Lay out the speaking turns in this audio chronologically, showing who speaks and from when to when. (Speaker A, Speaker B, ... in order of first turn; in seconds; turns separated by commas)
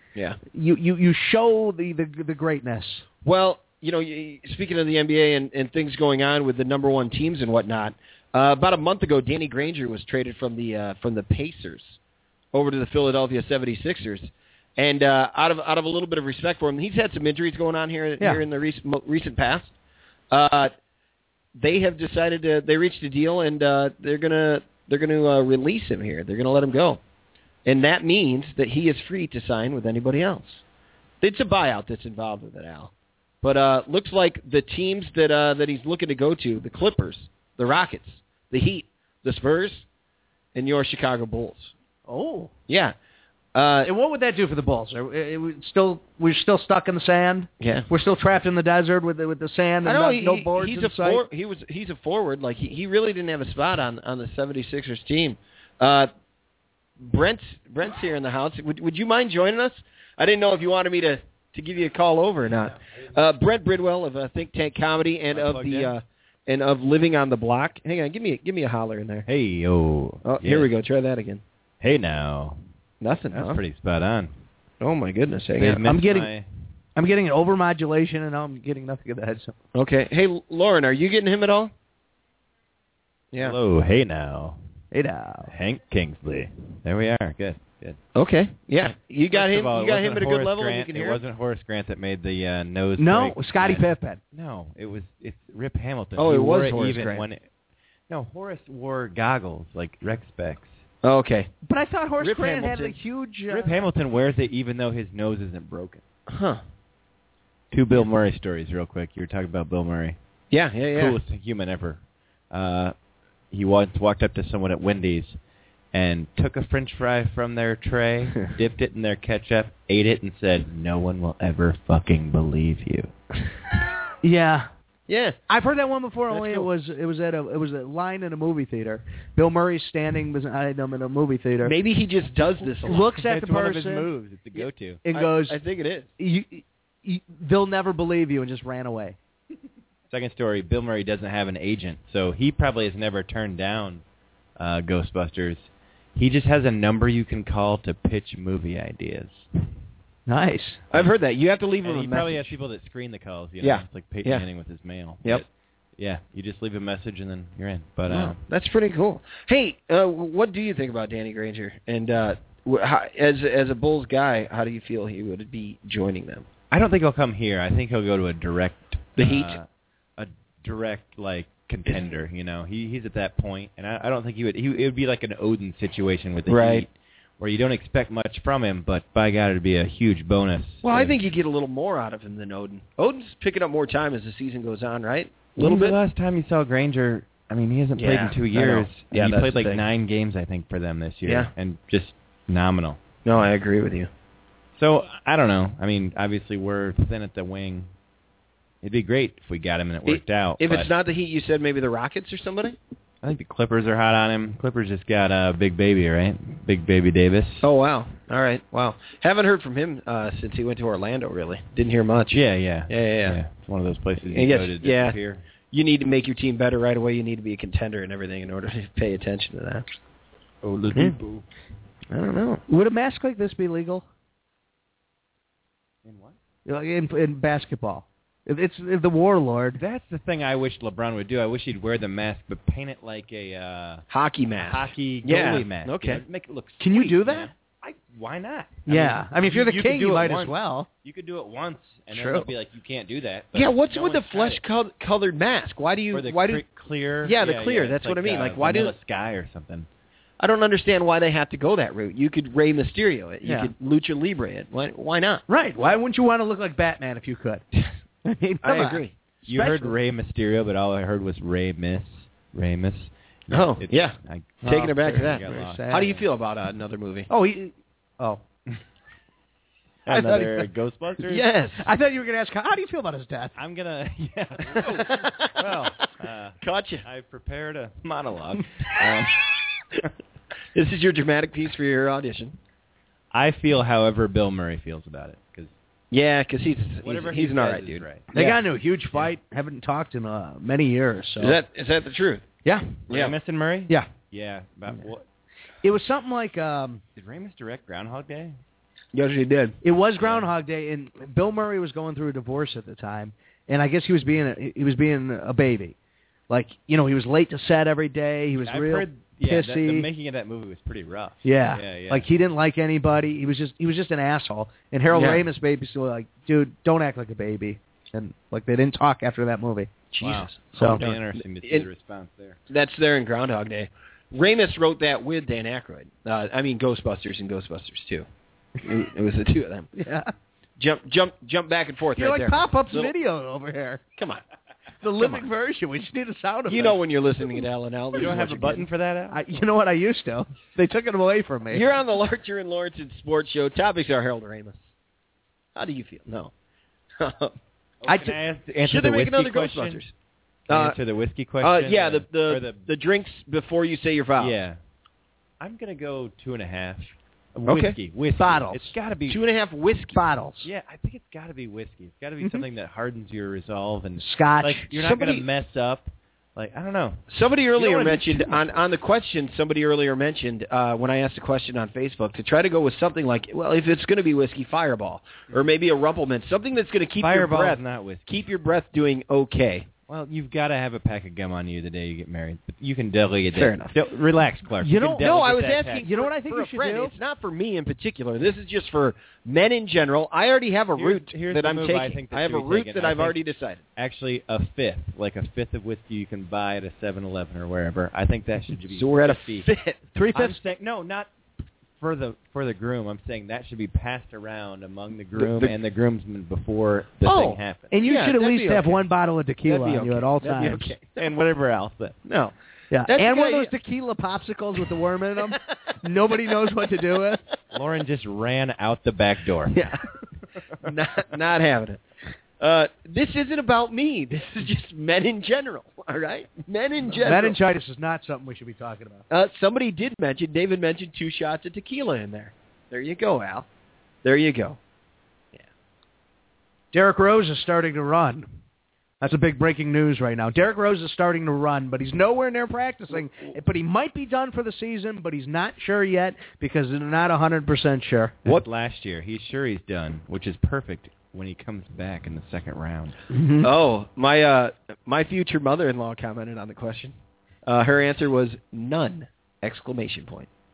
Speaker A: 0.5-3.0, Speaker B: 3.2-12.0, Speaker B: 12.5-19.7, Speaker B: 20.3-20.7, Speaker B: 21.6-27.0, Speaker B: 27.6-30.6, Speaker B: 31.2-32.9, Speaker B: 33.4-39.9, Speaker B: 40.5-41.7, Speaker A: 42.1-42.5, Speaker B: 42.7-43.0, Speaker B: 43.5-43.9, Speaker A: 43.8-51.2, Speaker B: 47.6-47.9, Speaker B: 49.8-56.1, Speaker B: 57.0-69.3, Speaker C: 62.5-62.8, Speaker C: 65.3-66.0, Speaker C: 69.3-70.7, Speaker B: 70.2-71.4, Speaker C: 71.8-72.6, Speaker B: 73.0-73.6, Speaker C: 73.3-74.3, Speaker B: 74.8-75.8, Speaker C: 75.6-76.5, Speaker A: 75.8-76.3, Speaker A: 77.0-79.5, Speaker B: 79.7-81.7, Speaker B: 83.3-83.6, Speaker C: 83.4-84.6, Speaker A: 84.9-85.5, Speaker C: 85.5-88.0, Speaker B: 88.2-91.2, Speaker C: 89.3-97.4, Speaker A: 93.0-94.2, Speaker B: 96.2-97.3, Speaker C: 98.1-100.8, Speaker B: 101.0-101.5, Speaker A: 101.6-103.8, Speaker B: 102.2-103.0, Speaker C: 103.5-106.0, Speaker B: 106.3-106.6, Speaker C: 107.7-110.2, Speaker B: 110.5-111.2, Speaker C: 110.9-112.9, Speaker C: 113.5-115.4, Speaker C: 115.9-123.1, Speaker A: 124.2-124.7, Speaker B: 125.1-125.4, Speaker A: 125.5-131.8, Speaker B: 126.3-126.7, Speaker B: 131.6-133.1, Speaker C: 132.6-135.0, Speaker A: 132.8-134.1, Speaker B: 134.6-136.1, Speaker A: 135.1-135.6, Speaker A: 136.2-139.2, Speaker C: 140.1-144.0, Speaker C: 144.6-149.5, Speaker A: 150.3-150.8, Speaker B: 150.9-152.5, Speaker C: 151.8-158.4, Speaker B: 153.6-154.4, Speaker B: 158.1-166.5, Speaker C: 166.7-181.2, Speaker B: 169.2-169.6, Speaker B: 171.9-172.1, Speaker B: 176.5-176.8, Speaker B: 180.8-186.0, Speaker C: 185.6-193.0, Speaker B: 188.0-189.8, Speaker B: 191.2-191.5, Speaker B: 193.2-194.1, Speaker C: 194.8-197.9, Speaker C: 198.8-200.9, Speaker B: 200.1-202.8, Speaker C: 203.2-207.7, Speaker B: 207.6-213.4, Speaker C: 212.3-215.4, Speaker B: 214.3-219.8, Speaker C: 220.6-221.4, Speaker B: 222.1-222.6, Speaker A: 222.7-224.0, Speaker C: 226.1-226.4, Speaker A: 226.7-229.8, Speaker C: 229.8-234.1, Speaker B: 234.1-236.2, Speaker C: 234.6-244.6, Speaker A: 236.8-237.5, Speaker A: 238.9-240.9, Speaker A: 242.1-242.5, Speaker B: 243.5-246.6, Speaker C: 246.1-249.9, Speaker B: 247.2-248.9, Speaker B: 250.4-255.4, Speaker A: 253.4-253.7, Speaker A: 255.5-257.6, Speaker A: 258.2-259.9, Speaker B: 258.6-259.2, Speaker C: 259.5-266.2, Speaker B: 263.5-267.3, Speaker A: 264.6-266.1, Speaker A: 267.3-268.4, Speaker C: 270.1-271.4, Speaker A: 270.1-270.7, Speaker B: 271.3-271.8, Speaker A: 271.8-273.6, Speaker C: 273.6-279.5, Speaker B: 274.8-275.5, Speaker B: 276.6-277.1, Speaker B: 280.7-282.6, Speaker C: 283.3-285.8, Speaker B: 286.1-288.6, Speaker C: 287.0-288.4, Speaker A: 288.3-291.6, Speaker B: 291.4-292.5, Speaker A: 292.6-293.0, Speaker B: 293.1-293.4, Speaker C: 293.1-295.2, Speaker A: 295.8-297.0, Speaker C: 297.2-298.6, Speaker B: 299.1-299.8, Speaker A: 299.8-305.9, Speaker A: 306.5-310.1, Speaker C: 308.7-312.3, Speaker A: 311.4-319.9, Speaker B: 315.1-315.4, Speaker B: 320.1-321.9, Speaker C: 320.2-322.6, Speaker A: 320.8-321.0, Speaker B: 322.7-328.3, Speaker B: 328.8-329.9, Speaker A: 329.9-330.3, Speaker B: 330.8-333.1, Speaker A: 332.2-334.0, Speaker B: 334.2-334.4, Speaker A: 335.0-337.0, Speaker B: 335.2-335.5, Speaker B: 336.7-338.9, Speaker C: 338.1-339.5, Speaker A: 339.3-341.9, Speaker B: 341.7-344.8, Speaker B: 345.8-346.5, Speaker B: 347.2-347.6, Speaker C: 348.0-350.0, Speaker A: 348.1-348.4, Speaker B: 348.8-350.1, Speaker B: 350.7-351.0, Speaker C: 350.7-352.8, Speaker B: 351.6-354.6, Speaker C: 354.4-354.8, Speaker C: 355.6-359.4, Speaker B: 357.7-358.0, Speaker A: 358.4-358.9, Speaker B: 359.3-360.2, Speaker A: 360.1-360.7, Speaker C: 360.6-368.9, Speaker A: 364.2-364.9, Speaker B: 365.0-365.5, Speaker B: 367.3-379.9, Speaker C: 377.2-378.3, Speaker C: 380.1-386.1, Speaker B: 383.5-384.0, Speaker A: 384.8-387.1, Speaker B: 385.2-393.8, Speaker C: 390.9-393.4, Speaker C: 394.0-399.7, Speaker B: 398.9-400.0, Speaker A: 400.1-400.6, Speaker C: 400.3-401.3, Speaker C: 402.0-407.9, Speaker B: 405.4-405.7, Speaker A: 407.3-410.9, Speaker B: 408.0-409.0, Speaker B: 409.6-411.2, Speaker C: 411.2-412.2, Speaker B: 412.3-412.5, Speaker A: 412.9-417.4, Speaker B: 413.1-413.7, Speaker C: 417.7-419.8, Speaker A: 419.7-420.0, Speaker B: 420.8-422.0, Speaker B: 422.6-427.6, Speaker A: 427.1-429.2, Speaker B: 429.3-433.7, Speaker B: 434.2-434.8, Speaker A: 436.9-438.4, Speaker A: 439.2-448.5, Speaker C: 448.4-453.2, Speaker A: 453.3-453.7, Speaker B: 453.6-457.1, Speaker B: 457.7-460.5